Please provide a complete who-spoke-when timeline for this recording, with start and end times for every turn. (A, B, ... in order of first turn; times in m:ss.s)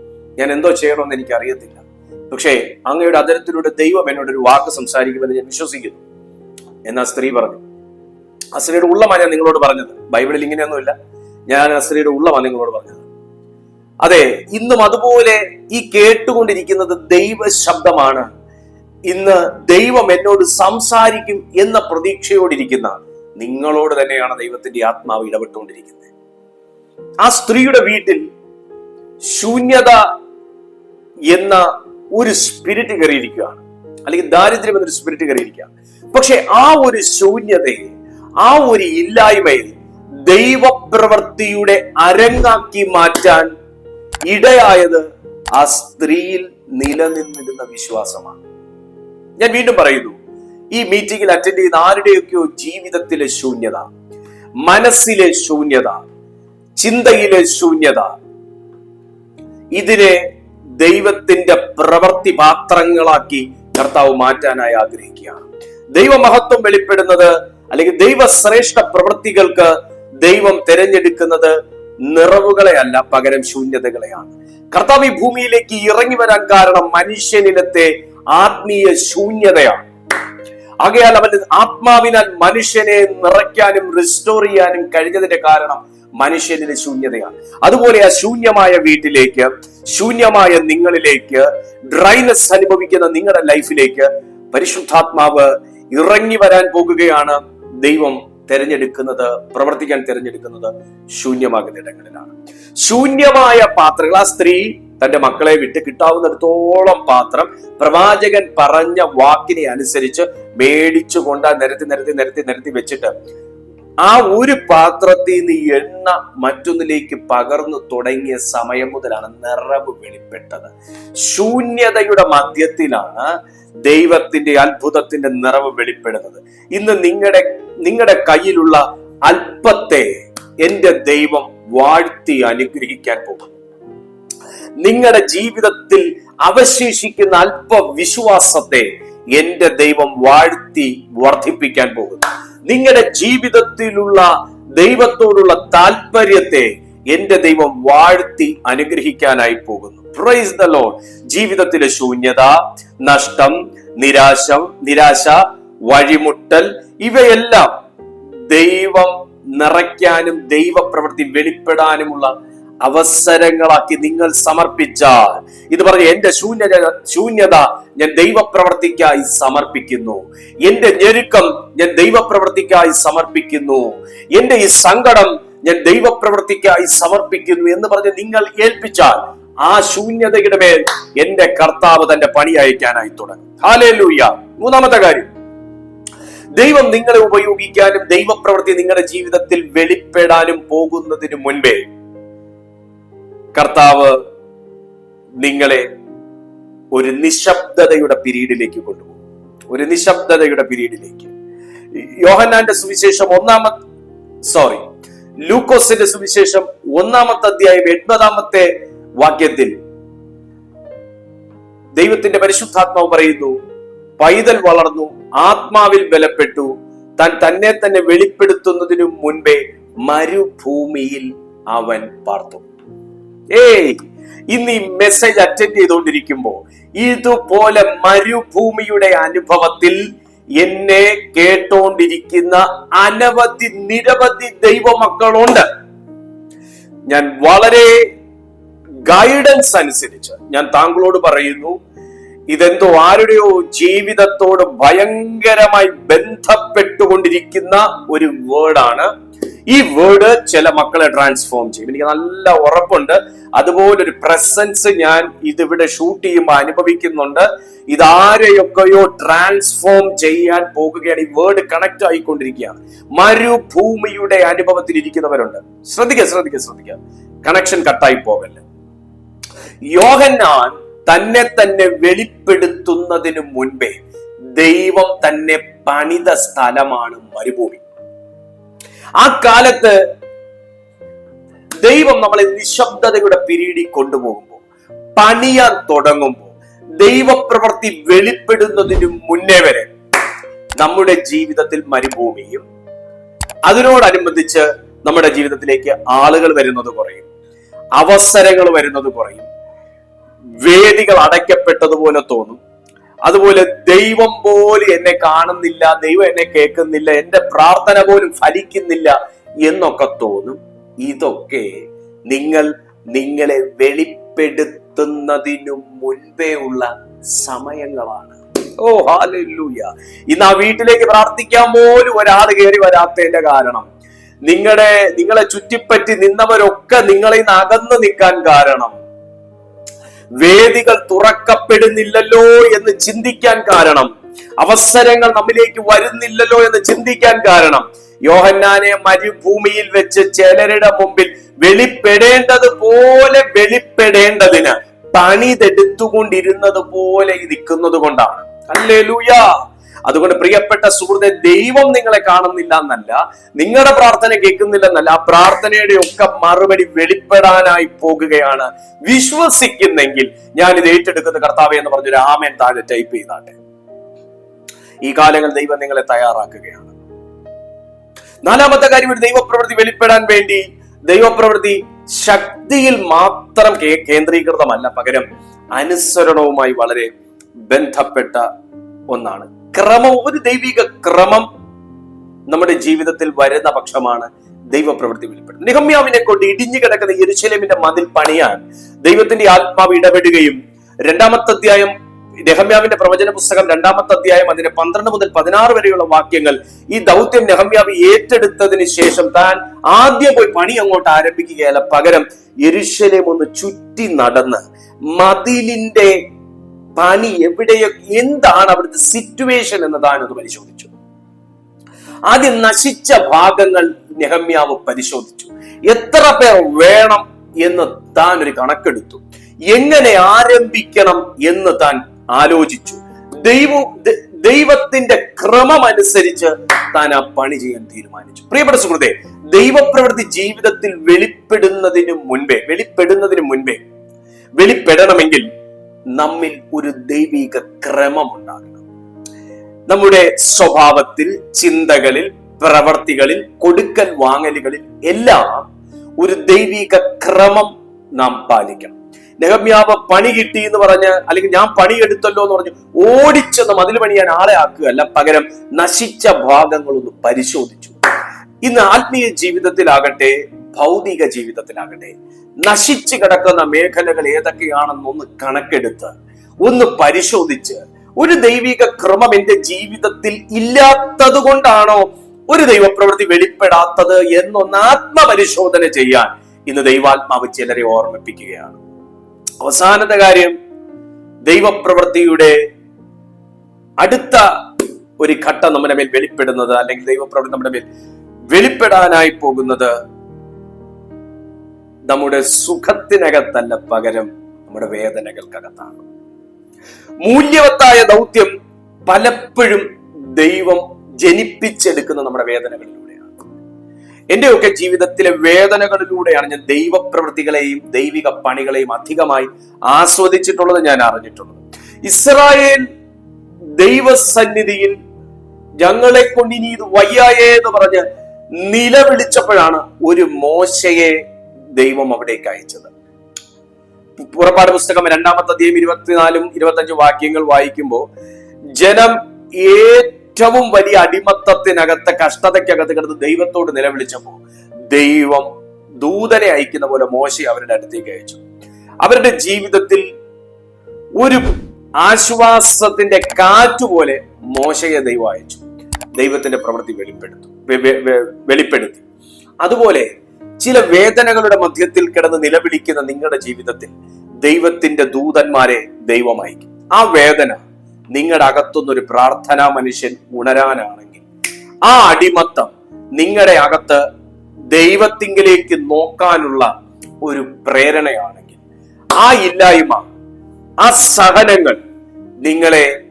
0:00.4-0:06.0 A
0:06.8-0:07.6 A
0:08.5-0:10.9 A
0:11.5-0:13.1 A
0:14.0-0:18.3 A
0:19.1-0:26.1 A
0:27.2-0:28.2 A
0:29.3-0:30.0 A
0:31.3-0:31.6 A
0:32.1-0:39.7 A
0:40.2-0:43.5 A
0:44.3-0:45.0 A
0:45.5-0:48.4 A
0:49.4-0:50.2 A
0:50.7-0:53.9 A
0:54.6-0:56.0 A
0:56.8-0:58.1 A
0:59.7-1:00.2 A
1:00.8-1:11.5 A
1:12.1-1:19.9 A
1:20.8-1:53.1 A
1:54.0-2:00.7 A
2:01.2-2:03.3 A
2:03.8-2:13.5 A
2:14.8-2:37.7 A
2:38.5-3:05.3 A
3:06.5-3:11.9 A
3:13.5-3:14.2 A
3:15.4-3:15.9 A
3:16.9-3:19.2 A
3:19.7-3:21.3 A
3:21.9-3:23.8 A
3:24.4-3:24.9 A
3:25.4-3:29.7 A
3:32.0-3:33.6 A
3:34.2-3:42.6 A
3:43.5-3:50.0 A
3:50.6-3:55.6 A
3:57.1-3:58.1 A
3:59.1-4:01.8 A
4:02.5-4:09.1 A
4:09.7-4:28.6 A
4:29.9-4:34.0 A
4:34.6-4:37.8 A
4:39.2-4:40.0 A
4:41.8-4:44.6 A
4:45.2-4:49.9 A
4:50.8-4:52.6 A
4:53.7-4:57.3 A
4:58.0-4:59.5 A
5:00.6-5:02.6 A
5:03.2-5:23.9 A
5:24.4-5:29.0 A
5:30.4-5:49.4 A
5:50.1-6:03.6 A
6:05.0-6:07.0 A
6:08.4-6:17.1 A
6:17.7-6:18.4 A
6:19.1-6:21.5 A
6:22.5-6:31.9 A
6:32.4-6:46.2 A
6:47.0-6:50.9 A
6:52.3-7:13.8 A
7:14.6-7:15.4 A
7:16.2-7:18.8 A
7:19.9-7:38.0 A
7:38.6-7:46.1 A
7:46.6-7:58.8 A
7:59.6-8:00.6 A
8:01.5-8:02.6 A
8:04.0-8:04.4 A
8:05.2-8:07.8 A
8:08.5-8:09.9 A
8:12.1-8:16.0 A
8:17.2-8:18.5 A
8:19.1-8:23.5 A
8:24.3-8:32.9 A
8:33.8-8:35.0 A
8:35.8-8:38.0 A
8:38.6-8:41.2 A
8:41.8-8:42.9 A
8:44.2-8:48.0 A
8:48.8-8:58.4 A
8:59.0-9:00.0 A
9:01.2-9:05.6 A
9:06.2-9:09.0 A
9:09.6-9:21.2 A
9:21.8-9:24.0 A
9:24.7-9:26.7 A
9:27.2-9:28.6 A
9:29.2-9:30.1 A
9:30.8-9:31.8 A
9:32.4-9:32.9 A